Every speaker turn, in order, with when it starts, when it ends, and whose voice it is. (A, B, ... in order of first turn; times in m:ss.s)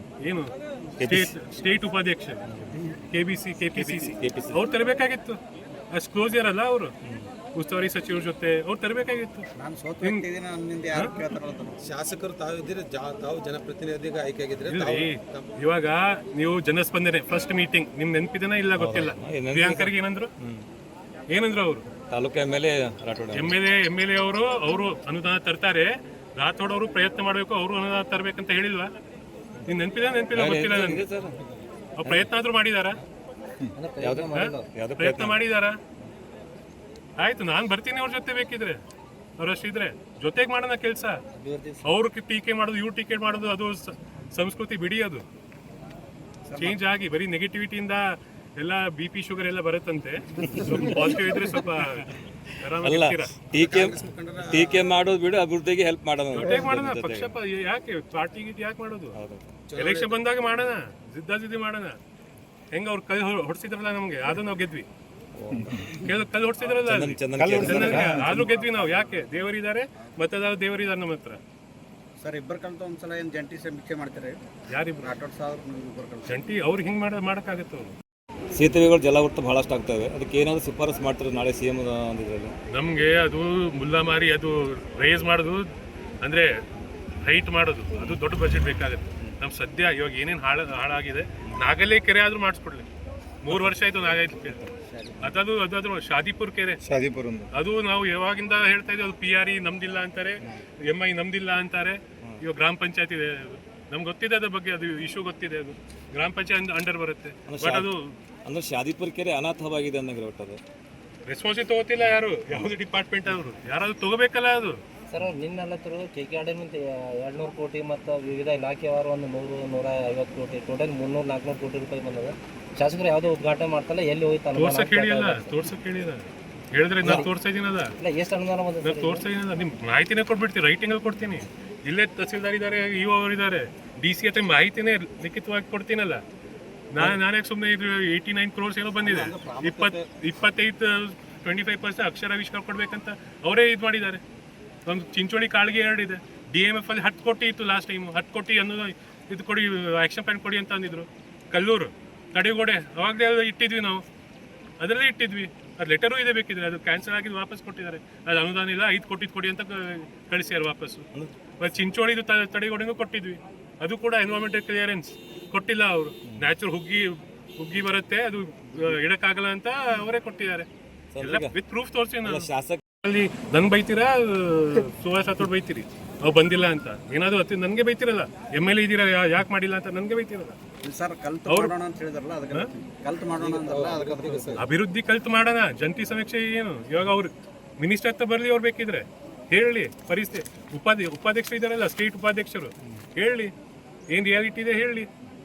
0:00.2-0:02.4 A
0:01.0-0:01.3 B
0:03.1-0:05.4 A
0:04.1-0:04.6 B
0:05.9-0:06.9 A
0:07.5-0:09.4 A
0:09.6-0:11.8 C
0:11.8-0:15.5 D
0:14.7-0:20.3 A
0:18.8-0:20.6 B
0:21.3-0:21.8 A
0:22.1-0:23.5 B
0:23.3-0:28.9 A
0:29.6-0:31.0 A
0:30.3-0:31.4 B
0:32.0-0:33.0 A
0:33.7-0:34.7 E
0:34.0-0:35.4 B
0:34.3-0:35.8 A
0:37.2-0:38.8 A
0:39.4-0:41.2 A
0:41.3-0:41.8 E
0:41.8-0:45.2 A
0:46.5-0:46.8 C
0:46.6-0:53.3 A
0:50.4-0:51.0 B
0:52.8-0:57.3 B
0:53.5-0:55.0 D
0:56.3-0:59.2 A
0:59.1-0:59.5 B
0:59.7-1:00.2 D
0:59.8-1:02.0 A
1:02.7-1:04.9 A
1:05.4-1:06.0 B
1:05.9-1:11.4 A
1:06.7-1:08.2 B
1:07.4-1:09.4 C
1:07.5-1:08.4 D
1:12.2-1:14.4 C
1:14.7-1:15.1 A
1:15.0-1:16.4 C
1:16.3-1:17.9 A
1:18.5-1:22.5 B
1:22.7-1:25.7 A
1:26.2-1:26.6 A
1:27.2-1:32.8 A
1:33.4-1:34.7 A
1:35.2-1:36.8 A
1:36.9-1:37.4 C
1:37.5-1:48.1 A
1:47.5-1:47.9 B
1:48.4-1:50.6 B
1:51.3-1:54.8 A
1:55.1-2:05.5 E
2:04.5-2:07.9 A
2:07.0-2:07.3 E
2:08.0-2:09.2 E
2:08.8-2:16.2 A
2:16.9-2:24.2 A
2:19.1-2:19.7 C
2:24.8-2:34.0 A
2:34.8-2:41.1 A
2:41.6-2:50.7 A
2:51.1-2:51.6 B
2:51.2-2:52.5 A
2:52.2-2:52.8 B
2:53.0-3:00.5 A
3:00.8-3:04.6 C
3:03.4-3:04.6 D
3:04.6-3:13.5 A
3:14.1-3:15.1 A